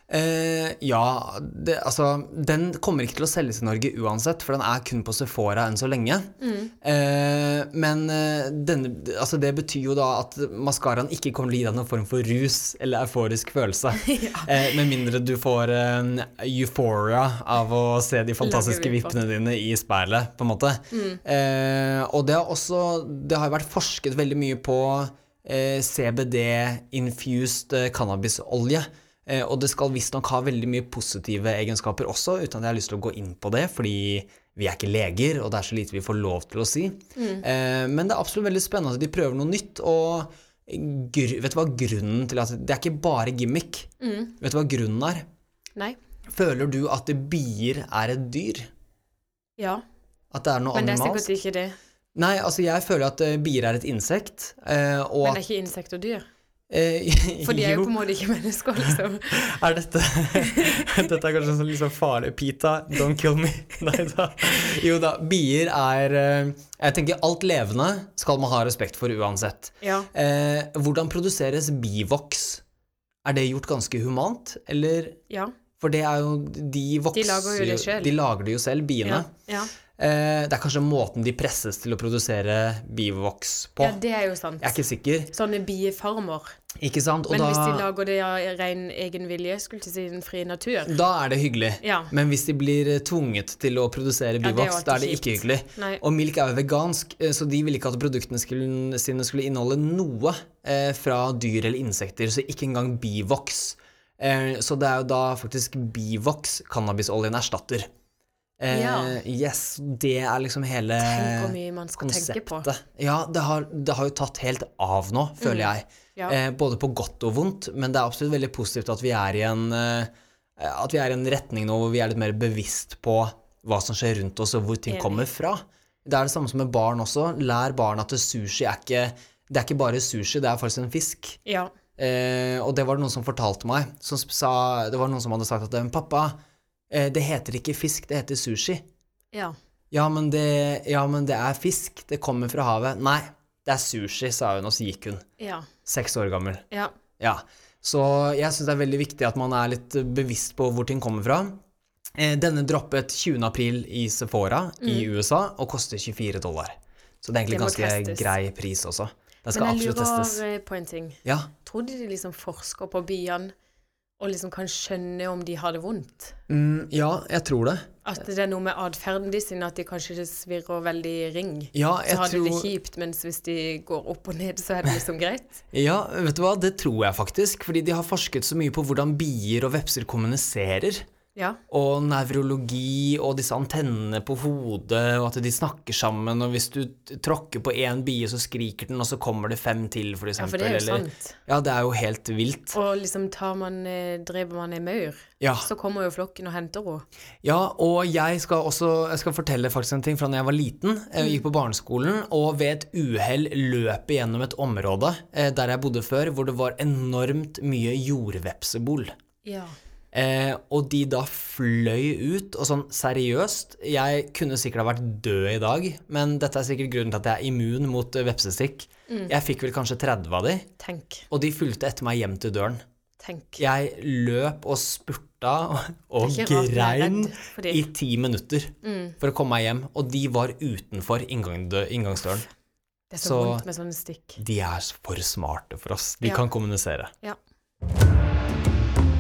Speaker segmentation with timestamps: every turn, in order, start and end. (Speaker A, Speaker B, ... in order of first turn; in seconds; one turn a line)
Speaker A: 0.1-6.3
Speaker B: 6.4-6.7
Speaker A: 6.8-45.2
Speaker B: 14.0-14.8
Speaker B: 18.4-19.2
Speaker B: 20.9-21.2
Speaker B: 37.1-37.4
Speaker B: 44.0-44.3
Speaker A: 46.3-48.7
Speaker B: 49.6-49.8
Speaker A: 50.3-51.3
Speaker B: 50.7-51.8
Speaker A: 52.1-55.4
Speaker B: 55.2-56.2
Speaker A: 56.7-57.9
Speaker B: 57.4-59.4
Speaker A: 59.3-72.6
Speaker B: 60.4-60.9
Speaker B: 69.8-70.1
Speaker A: 73.2-75.2
Speaker A: 75.8-79.3
Speaker B: 77.1-78.1
Speaker B: 79.0-79.7
Speaker A: 79.9-84.0
Speaker B: 83.8-84.8
Speaker A: 84.6-85.3
Speaker B: 85.3-86.5
Speaker A: 86.8-87.9
Speaker B: 87.3-90.9
Speaker A: 90.8-107.9
Speaker B: 91.8-92.1
Speaker B: 94.4-96.0
Speaker A: 108.6-131.4
Speaker B: 108.7-109.2
Speaker B: 111.0-112.7
Speaker B: 115.4-116.3
Speaker B: 124.9-125.2
Speaker B: 131.4-131.7
Speaker A: 132.0-136.4
Speaker A: 136.9-138.8
Speaker A: 139.9-145.3
Speaker B: 145.4-145.7
Speaker A: 145.9-146.6
Speaker A: 147.2-151.6
Speaker A: 152.1-160.4
Speaker B: 154.8-155.1
Speaker B: 157.5-158.3
Speaker B: 159.5-163.5
Speaker A: 161.2-161.5
Speaker B: 164.2-166.4
Speaker A: 166.5-167.9
Speaker B: 168.0-175.6
Speaker A: 171.7-172.7
Speaker A: 175.7-181.1
Speaker B: 181.3-181.6
Speaker A: 181.7-192.8
Speaker B: 190.4-191.4
Speaker B: 192.7-197.1
Speaker A: 195.4-195.7
Speaker A: 197.4-209.1
Speaker B: 209.4-209.8
Speaker A: 210.1-220.7
Speaker B: 219.1-219.3
Speaker B: 220.8-221.3
Speaker A: 221.3-222.8
Speaker B: 223.2-223.6
Speaker A: 223.6-232.5
Speaker B: 226.2-227.9
Speaker B: 228.8-229.2
Speaker B: 233.1-234.4
Speaker A: 233.2-233.6
Speaker A: 234.4-237.1